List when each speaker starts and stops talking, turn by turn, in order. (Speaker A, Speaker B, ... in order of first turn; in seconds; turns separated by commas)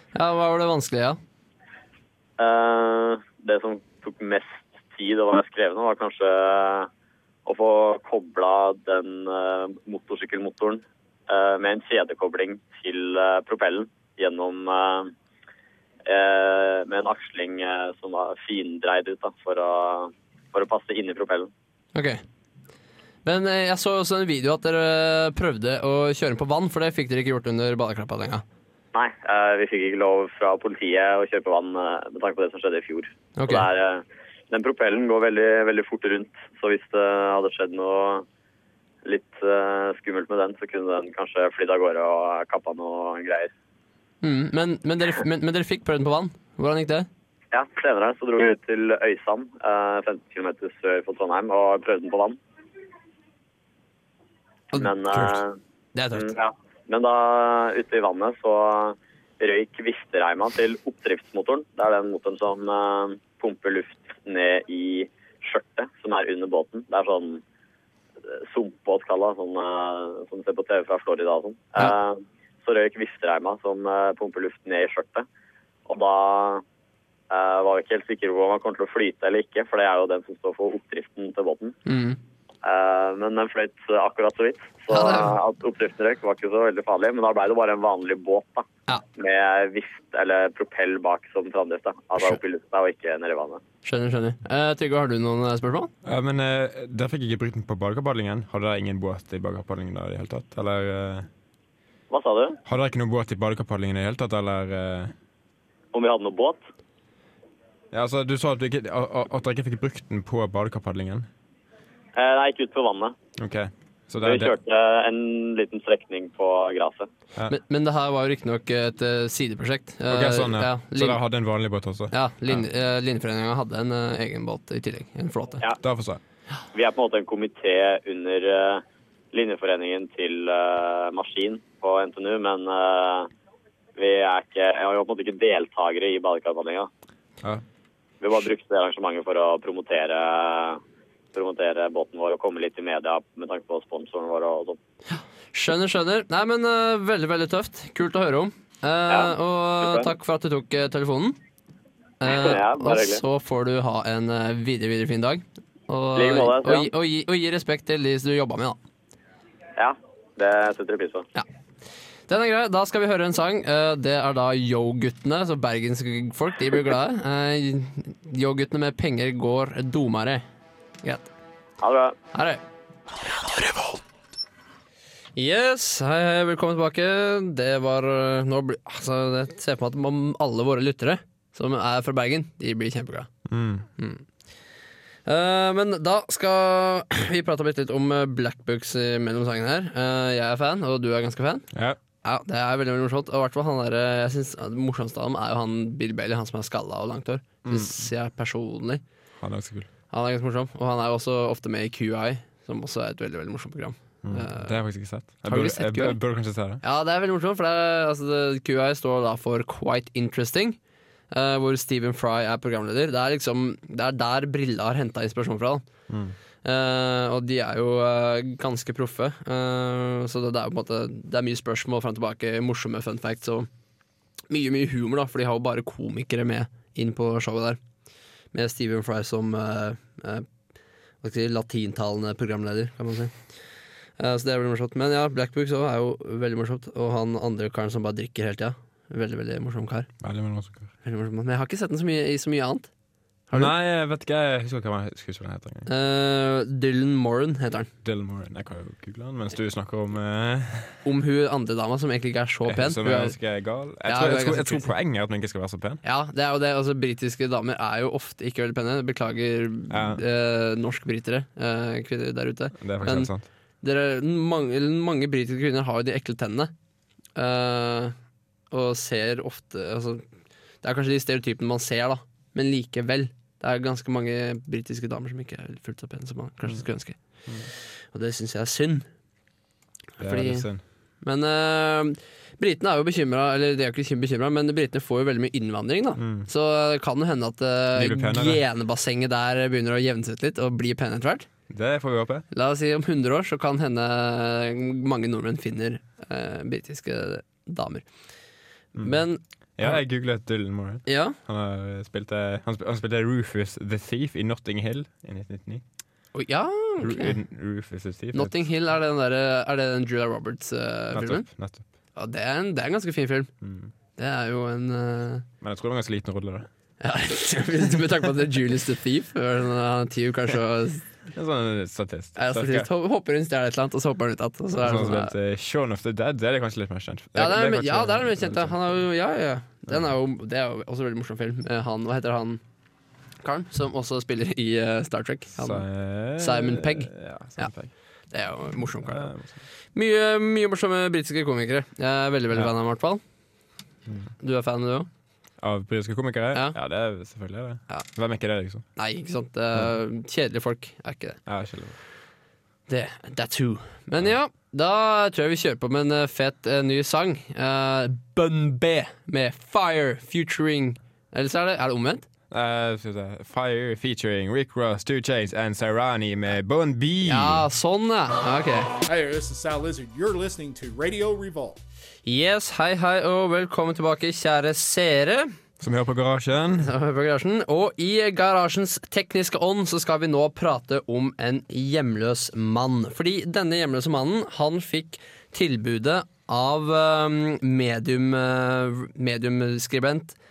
Speaker A: 0.1-1.2, Speaker B: 2.4-6.9, Speaker B: 7.5-15.1, Speaker B: 16.1-21.5, Speaker A: 21.9-22.2, Speaker A: 23.2-28.4, Speaker B: 28.9-38.2, Speaker A: 33.4-33.6, Speaker B: 39.0-43.5, Speaker A: 44.2-47.1, Speaker B: 47.5-52.4, Speaker A: 54.7-55.4, Speaker B: 54.7-55.5, Speaker A: 55.9-56.3, Speaker B: 56.1-67.4, Speaker B: 68.3-75.2, Speaker B: 75.9-76.6, Speaker B: 77.3-81.8, Speaker A: 81.8-82.2, Speaker B: 82.6-88.7, Speaker A: 84.9-85.3, Speaker B: 89.2-93.6, Speaker A: 93.8-95.9, Speaker C: 96.0-101.3, Speaker B: 102.1-102.6, Speaker C: 102.7-105.1, Speaker B: 105.9-106.6, Speaker C: 107.9-111.3, Speaker B: 112.2-113.1, Speaker C: 113.4-114.5, Speaker B: 114.2-117.1, Speaker A: 117.5-121.2, Speaker C: 120.1-122.6, Speaker A: 122.1-125.6, Speaker C: 125.8-126.2, Speaker B: 126.7-133.3, Speaker B: 133.9-136.9, Speaker B: 138.2-140.8, Speaker B: 141.3-144.8, Speaker A: 145.1-151.4, Speaker B: 149.1-150.1, Speaker A: 152.2-158.8, Speaker B: 152.2-153.2, Speaker B: 156.2-156.9, Speaker B: 159.8-161.2, Speaker A: 162.3-170.4, Speaker A: 171.0-171.3, Speaker B: 171.8-172.2, Speaker A: 172.3-172.6, Speaker A: 173.4-174.0, Speaker A: 175.3-183.3, Speaker C: 183.4-183.9, Speaker A: 184.0-184.2, Speaker A: 185.2-191.7, Speaker C: 191.7-192.0, Speaker A: 192.2-199.0, Speaker C: 197.6-198.0, Speaker C: 199.4-199.9, Speaker A: 200.1-204.8, Speaker C: 204.2-206.8, Speaker A: 205.4-206.2, Speaker A: 206.8-210.8, Speaker A: 211.3-215.8, Speaker C: 216.1-216.3, Speaker A: 216.6-223.7, Speaker A: 224.5-227.8, Speaker A: 228.5-230.5, Speaker A: 231.2-233.3, Speaker A: 234.2-240.1, Speaker C: 240.2-240.9, Speaker A: 241.0-242.9, Speaker C: 243.5-245.9, Speaker A: 245.9-247.9, Speaker C: 248.0-251.0, Speaker A: 251.0-253.3, Speaker C: 252.7-256.0, Speaker A: 254.1-254.9, Speaker A: 256.0-263.3, Speaker C: 259.9-260.2, Speaker C: 262.7-263.5, Speaker A: 263.8-266.7, Speaker A: 267.4-268.1, Speaker A: 268.7-270.2, Speaker A: 270.8-277.2, Speaker A: 278.1-279.1, Speaker A: 280.2-280.7, Speaker C: 280.2-280.8, Speaker A: 281.2-291.4, Speaker C: 286.2-286.5, Speaker C: 287.9-288.6, Speaker C: 291.7-292.4, Speaker A: 292.5-298.0, Speaker A: 299.0-300.0, Speaker C: 299.8-305.8, Speaker A: 301.1-301.4, Speaker A: 306.3-307.4, Speaker C: 307.0-308.6, Speaker A: 308.3-311.4, Speaker C: 311.1-311.8, Speaker A: 312.1-313.5, Speaker C: 313.6-313.9, Speaker A: 314.2-315.4, Speaker C: 315.6-316.7, Speaker A: 317.0-321.0, Speaker C: 321.3-322.9, Speaker A: 322.4-325.3, Speaker C: 324.8-328.9, Speaker A: 327.3-332.6, Speaker A: 333.4-335.8, Speaker C: 335.6-337.9, Speaker A: 336.4-337.7, Speaker A: 338.3-339.3, Speaker C: 339.0-339.6, Speaker A: 339.9-343.2, Speaker A: 344.4-345.1, Speaker C: 345.6-348.8, Speaker A: 348.9-351.4, Speaker C: 351.5-352.0, Speaker A: 352.9-362.2, Speaker C: 362.5-367.6, Speaker A: 367.2-368.9, Speaker D: 369.0-371.8, Speaker A: 372.2-375.5, Speaker C: 375.8-376.9, Speaker A: 376.8-390.4